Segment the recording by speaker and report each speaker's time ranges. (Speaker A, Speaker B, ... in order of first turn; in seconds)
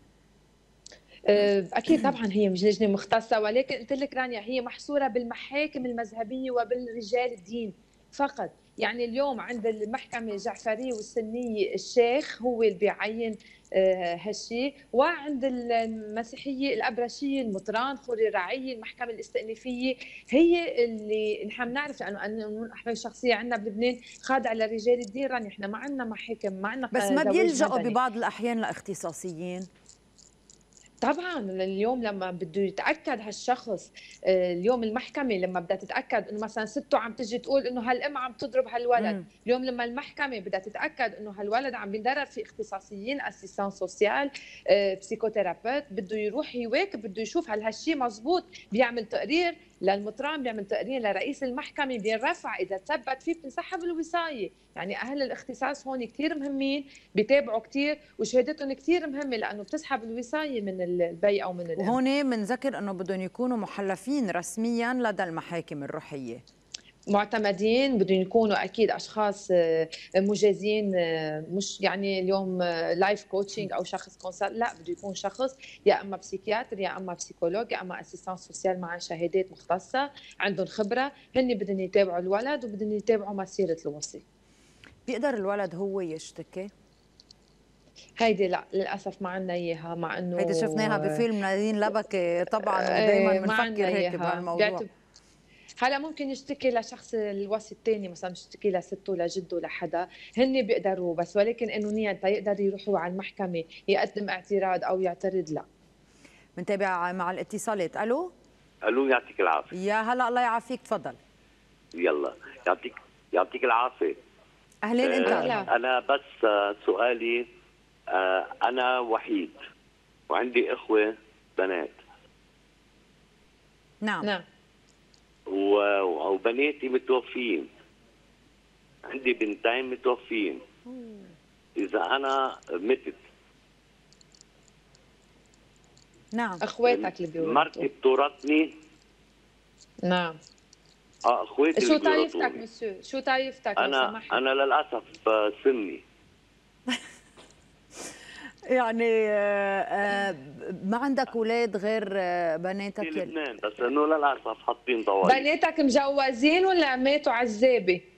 Speaker A: 1.3-27.9, 31.0-62.0, 67.1-84.2, 88.2-91.2, 92.6-94.9, 95.8-105.7, 115.2-115.7, 136.6-137.9, 140.0-140.4, 141.8-144.4, 155.2-158.0
Speaker B: 26.9-29.7, 39.0-39.2, 61.8-66.4, 85.1-86.7, 90.4-94.8, 106.6-108.3, 109.7-111.2, 114.8-115.6, 124.0-124.3, 136.3-136.6, 148.7-153.3
Speaker C: 108.8-109.7, 112.0-114.2, 115.0-117.5, 118.1-119.6, 120.3-122.0, 125.5-127.7, 129.1-130.6, 131.8-133.2, 136.8-138.7, 141.2-142.6, 143.8-146.0, 153.0-155.5